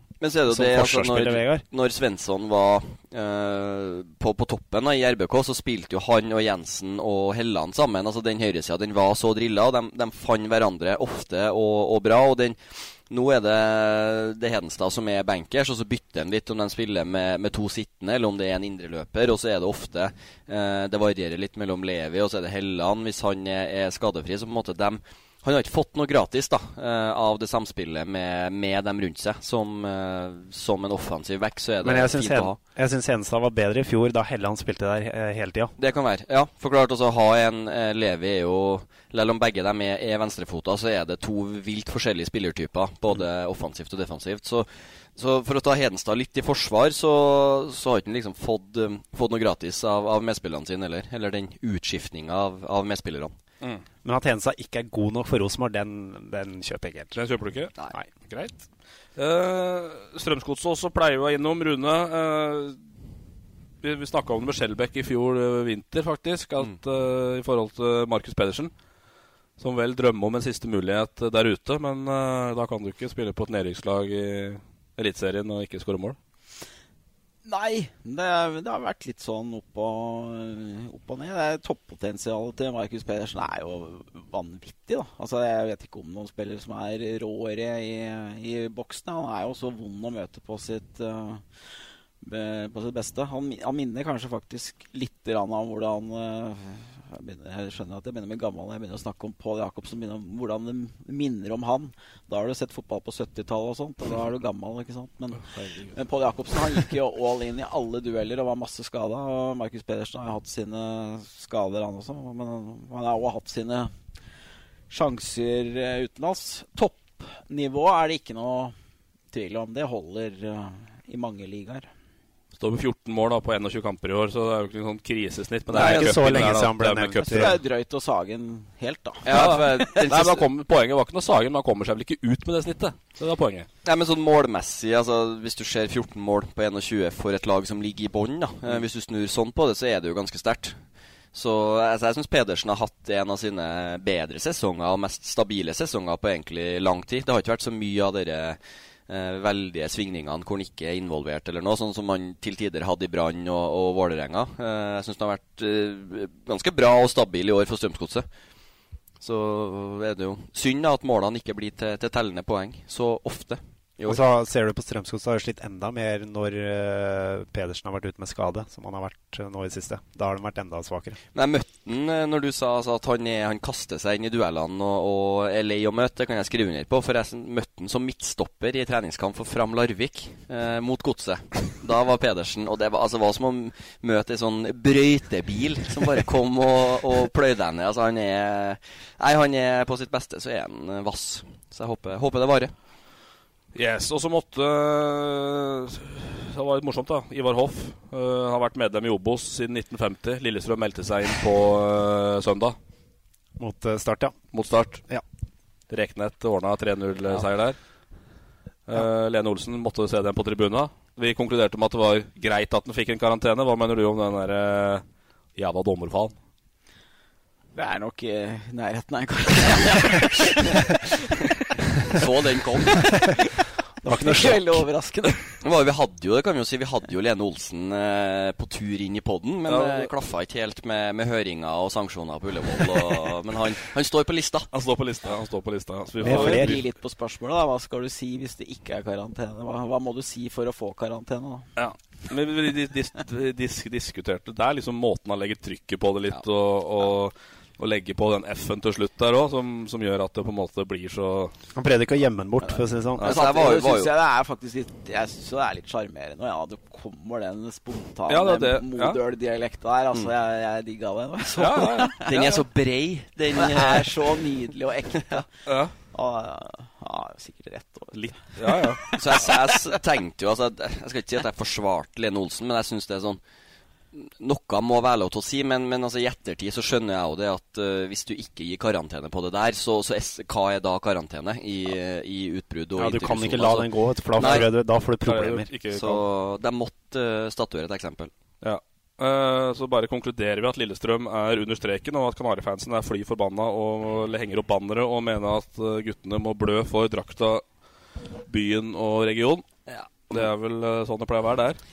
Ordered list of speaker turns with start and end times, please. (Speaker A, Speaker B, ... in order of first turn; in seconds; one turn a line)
Speaker A: 0.2-32.6
Speaker B: 0.5-1.6
Speaker B: 31.8-35.7
Speaker A: 35.8-53.3
Speaker B: 54.0-57.2
Speaker C: 57.2-57.7
Speaker C: 58.3-58.6
Speaker C: 59.2-62.8
Speaker C: 63.8-68.7
Speaker C: 69.6-76.2
Speaker D: 77.5-91.4
Speaker D: 92.2-113.9
Speaker C: 105.4-106.0
Speaker D: 114.9-118.8
Speaker D: 119.3-121.9
Speaker C: 122.6-127.6
Speaker B: 125.7-127.6
Speaker A: 125.8-126.3
Speaker D: 127.2-130.0
Speaker A: 129.2-130.5
Speaker C: 129.3-133.7
Speaker A: 133.8-140.8
Speaker A: 141.3-158.3
Speaker A: 159.2-164.2
Speaker B: 164.1-171.2
Speaker A: 171.3-192.7
Speaker C: 193.8-202.8
Speaker B: 203.6-204.5
Speaker C: 204.5-205.0
Speaker C: 205.9-207.8
Speaker C: 208.9-215.0
Speaker C: 215.6-216.3
Speaker D: 217.8-221.1
Speaker A: 222.1-223.2
Speaker D: 222.9-223.4
Speaker B: 224.0-224.8
Speaker D: 224.0-225.5
Speaker A: 225.6-234.7
Speaker C: 229.7-230.1
Speaker C: 234.7-236.8
Speaker B: 236.2-236.8
Speaker D: 236.2-241.7
Speaker C: 241.8-251.5
Speaker B: 251.8-253.3
Speaker D: 252.6-262.2
Speaker A: 253.2-254.1
Speaker C: 258.3-259.2
Speaker C: 261.6-262.6
Speaker A: 262.2-264.4
Speaker D: 263.5-265.5
Speaker C: 265.7-265.9
Speaker D: 266.1-269.5
Speaker C: 268.1-269.1
Speaker A: 269.1-273.4
Speaker A: 274.1-284.7
Speaker B: 283.0-285.7
Speaker C: 284.4-284.7
Speaker C: 285.2-286.2
Speaker A: 285.9-288.3
Speaker C: 288.6-297.6
Speaker C: 298.5-299.7
Speaker A: 299.9-300.5
Speaker C: 300.3-301.8